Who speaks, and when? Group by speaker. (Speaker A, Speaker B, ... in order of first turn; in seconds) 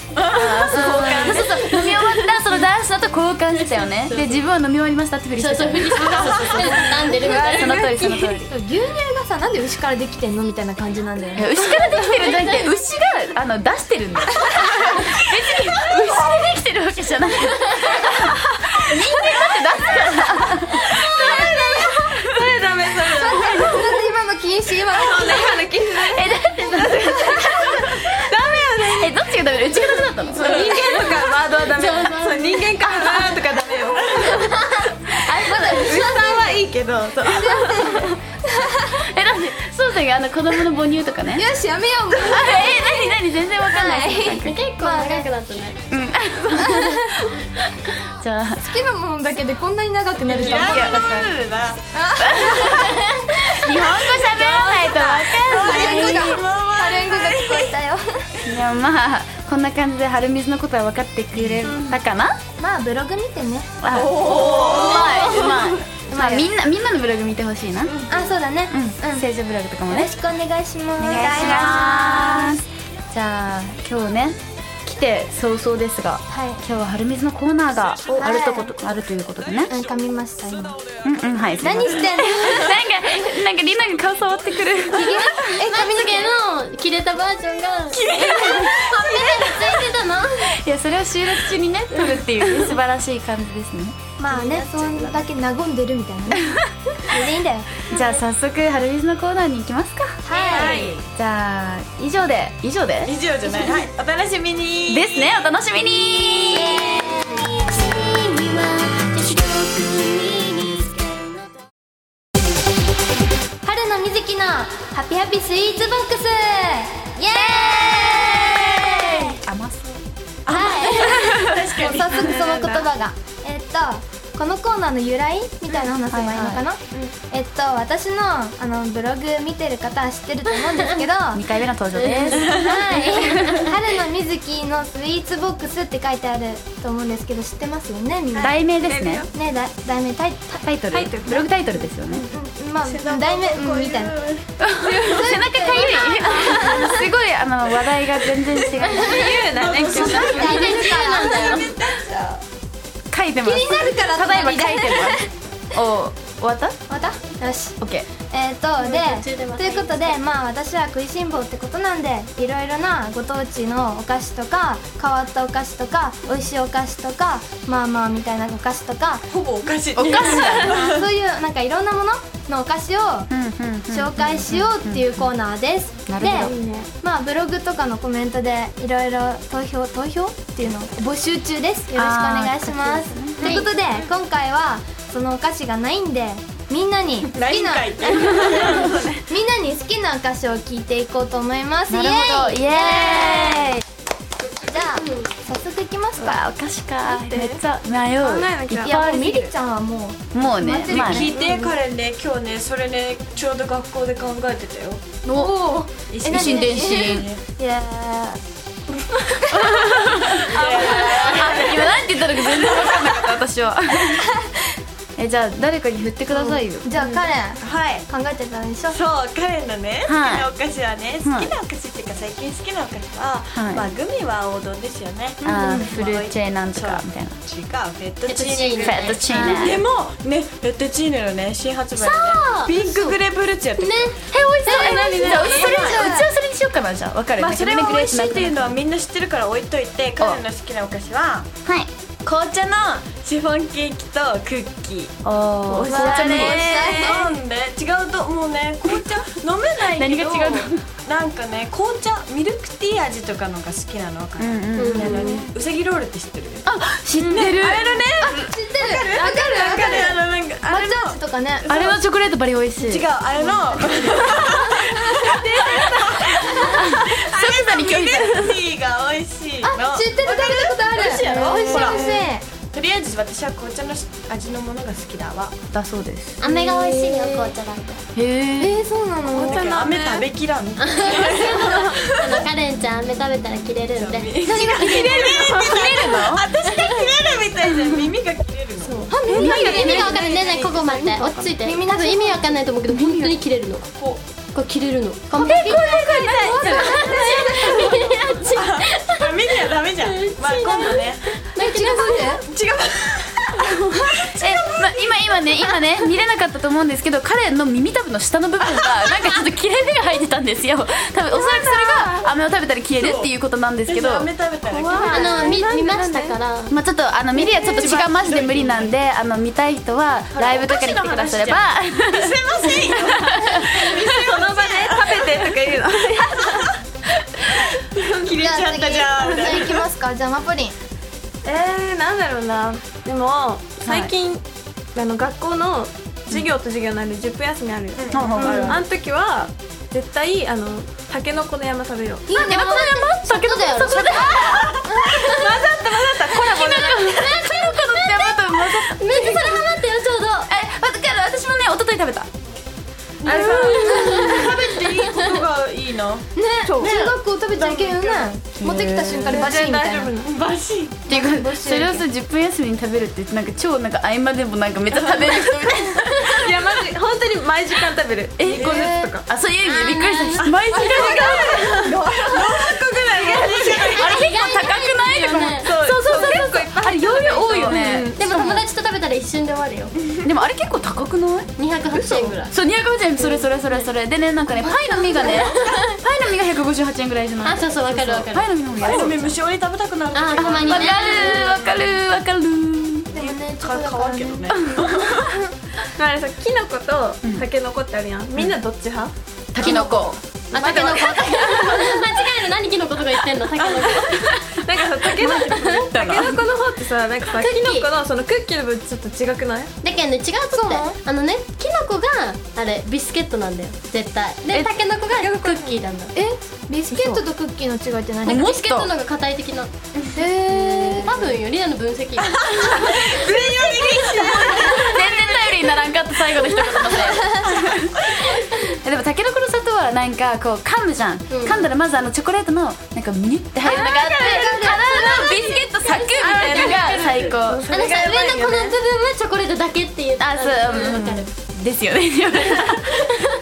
Speaker A: 0.1-1.1, 16.0-16.2, 30.4-30.7, 34.2-34.5, 36.0-37.9, 50.2-51.8, 53.6-57.7, 63.9-65.8, 87.9-89.5, 100.3-101.1, 103.0-105.3, 120.5-122.4, 142.8-144.5, 149.4-152.4, 169.3-171.0, 187.3-189.1, 200.9-205.0, 206.1-207.4, 210.5-213.3, 217.6-218.1, 218.9-234.2, 235.6-236.1, 237.4-241.5, 242.2-245.1, 246.9-256.7, 257.2-262.0, 262.8-272.1, 272.7-275.5, 279.3-282.4, 283.9-289.0, 298.4-301.5, 302.4-305.1, 308.7-309.0, 312.9-313.3, 313.9-315.4, 317.3-318.9, 320.3-325.6, 326.2-326.7, 327.9-329.8, 338.0-338.8, 344.4-346.4, 353.2-356.2, 356.8-358.3, 360.2-361.1, 364.9-365.5, 368.4-368.9, 370.4-374.3, 388.7-391.6, 393.1-395.4, 399.6-399.9, 422.5-425.1, 437.3-438.8
Speaker B: 0.3-8.5, 11.4-22.2, 23.3-23.5, 25.9-28.0, 28.8-30.9, 35.2-36.1, 39.0-41.5, 42.2-44.6, 45.9-47.6, 48.2-48.6, 50.4-51.2, 52.2-56.3, 58.4-62.4, 63.8-67.9, 68.7-70.1, 71.0-72.6, 73.1-79.7, 81.0-85.6, 90.6-94.0, 97.9-100.6, 101.1-103.2, 104.9-107.1, 117.7-120.0, 126.0-126.6, 131.3-132.6, 138.4-139.2, 140.5-142.2, 144.6-150.5, 153.1-156.8, 157.8-158.1, 169.9-170.8, 173.3-175.3, 176.1-176.5, 181.9-183.6, 191.9-193.8, 196.2-199.4, 200.3-201.3, 206.3-207.3, 209.6-214.3, 215.2-216.8, 220.0-220.5, 221.2-221.5, 223.5-223.9, 225.4-227.4, 228.8-229.8, 234.3-238.8, 245.2-247.0, 249.9-250.8, 254.4-255.3, 256.6-258.4, 261.7-263.1, 266.5-268.6, 275.7-276.4, 278.1-278.8, 285.2-286.5, 289.3-290.0, 304.4-314.3, 316.7-324.0, 333.8-334.1, 338.1-338.8, 342.3-345.1, 346.2-349.7, 350.5-352.3, 358.6-359.4, 361.1-366.5, 368.4-371.8, 373.3-378.2, 380.2-389.4, 390.4-393.1, 399.5-400.2, 405.9-406.4, 416.9-417.2, 418.2-418.9, 424.6-437.7, 440.2-443.1
Speaker C: 0.7-2.6, 3.5-4.4, 5.4-8.1, 12.0-12.7, 30.7-33.4, 34.1-34.9, 35.9-36.3, 43.7-45.8, 64.4-65.6, 85.4-90.5, 91.9-92.7, 94.3-95.2, 106.5-111.5, 131.9-133.7, 148.8-149.4, 150.4-151.7, 158.8-160.2, 176.4-176.9, 183.4-183.7, 194.8-195.3, 210.6-211.1, 217.0-217.3, 228.2-229.6, 231.9-232.7, 233.8-235.8, 254.7-255.2, 276.4-278.0, 280.8-285.2, 286.7-287.1, 289.3-293.9, 294.5-295.8, 296.7-302.3, 314.9-316.7, 342.3-344.4, 345.1-345.6, 346.6-350.5, 353.2-355.2, 369.6-370.5, 373.9-376.4, 378.1-379.9, 381.6-382.5, 383.2-383.9, 384.7-385.8, 387.4-388.5, 390.1-391.7, 400.5-404.4, 405.2-405.9, 407.3-407.9, 409.8-416.1, 418.2-419.7, 420.5-424.8, 431.3-431.7, 434.7-437.2, 437.7-441.3
Speaker D: 6.9-11.6, 14.6-14.9, 21.2-21.6, 23.2-25.8, 35.4-36.5, 37.2-39.0, 41.3-42.8, 43.7-45.3, 46.5-47.2, 48.6-51.3, 51.9-53.1, 55.5-58.4, 61.6-61.9, 62.6-63.7, 66.1-66.5, 68.0-69.3, 69.9-72.5, 76.3-76.6, 78.1-78.7, 79.7-80.8, 81.6-82.8, 84.9-86.4, 94.2-97.9, 100.2-100.9, 113.6-119.3, 120.5-131.4, 132.4-138.6, 139.3-140.6, 142.1-144.2, 144.8-147.1, 149.7-151.6, 153.4-155.3, 156.9-157.8, 158.3-169.3, 170.5-173.3, 173.9-188.4, 189.2-193.6, 194.6-196.4, 198.8-201.6, 205.2-208.4, 209.0-209.9, 210.8-211.3, 216.3-219.0, 225.4-225.9, 229.3-229.7, 232.8-233.1, 235.2-236.3, 245.9-247.4, 255.0-255.5, 258.2-261.7, 263.4-265.3, 269.6-272.4, 276.4-277.5, 278.6-279.7, 285.2-285.6, 288.8-292.6, 295.3-297.9, 301.6-302.4, 328.3-330.7, 342.4-342.8, 356.4-360.1, 361.1-362.1, 393.1-394.5, 410.5-411.0, 416.1-418.4, 420.1-421.3, 423.7-424.7, 427.0-427.6, 434.1-435.3
Speaker E: 20.9-24.0, 24.9-34.4, 35.9-38.0, 100.6-100.9, 121.2-122.8, 138.4-139.3, 140.9-141.5, 148.9-150.8, 188.2-189.1, 197.0-197.6, 198.2-199.5, 201.3-201.7, 211.1-211.6, 245.7-247.2, 265.6-266.2, 271.4-272.3, 279.3-280.3, 289.1-290.4, 295.7-297.9, 311.3-312.3, 314.6-316.3, 317.4-317.9, 324.2-326.7, 329.2-329.5, 331.4-342.3, 345.1-347.0, 353.3-354.3, 359.3-360.3, 366.1-369.2, 370.7-373.8, 375.6-378.6, 396.0-402.0, 403.7-409.7, 415.1-415.8, 436.4-437.4